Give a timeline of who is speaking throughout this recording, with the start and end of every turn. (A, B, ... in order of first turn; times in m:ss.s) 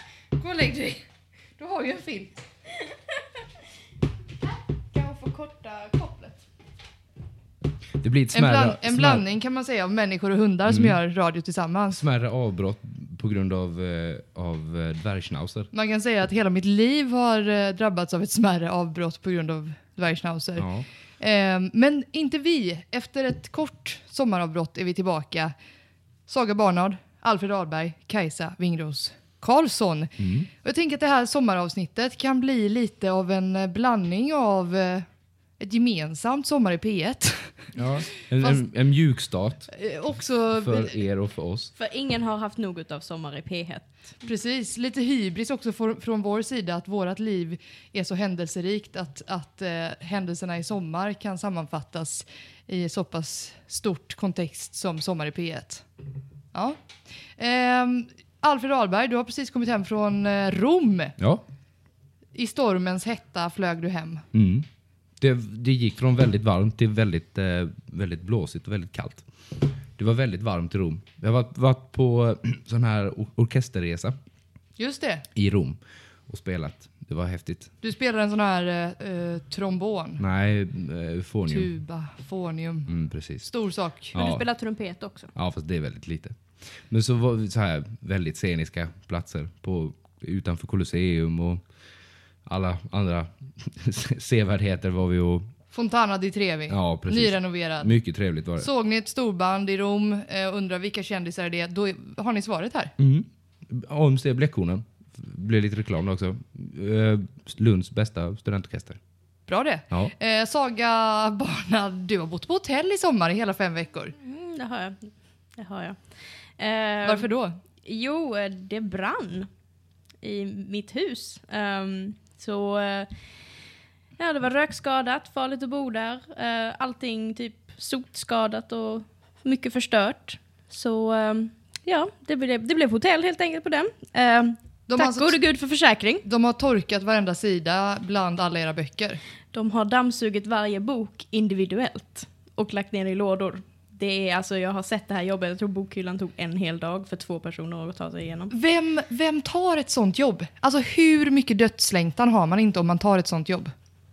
0:00.3-0:01.0 A
0:01.6-0:02.4 A
0:04.9-0:06.4 B
0:08.0-0:09.2 C
0:08.3-0:12.0 A
0:10.7-0:11.0 C
0:11.9-0:15.7 C
0:15.7-0:20.7 A
0:20.6-0:20.9 C
0:21.2-0:25.5 A
0:26.3-0:35.1 A
0:30.2-0:30.5 C
0:35.6-0:37.6 A
0:37.8-0:39.8 C
0:39.7-0:41.0 A
0:40.5-0:41.7 C
0:41.8-0:44.1 B
0:44.2-0:55.8 A
0:57.4-1:01.2 A
1:02.4-1:04.2 A
1:04.3-1:04.7 C
1:05.2-1:14.2 C
1:14.8-1:15.2 A
1:15.4-1:17.7 C
1:17.8-1:20.2 A
1:20.2-1:21.7 C
1:21.5-1:24.2 A
1:22.9-1:23.5 C
1:24.1-1:24.5 C
1:24.2-1:25.3 B
1:25.4-1:26.4 C
1:26.9-1:31.6 C
1:32.5-1:35.5 C
1:35.7-1:37.9 A
1:36.7-1:38.7 C
1:38.6-1:42.9 A
1:43.0-1:49.0 C
1:49.5-1:54.1 A
1:54.2-1:55.0 B
1:55.6-1:56.0 B
1:56.6-1:57.3 B
1:57.0-1:57.6 A
1:57.8-1:59.5 B
2:00.2-2:03.1 B
2:04.2-2:16.2 B
2:14.9-2:15.4 A
2:16.2-2:19.2 A
2:19.5-2:28.5 B
2:28.5-2:33.7 A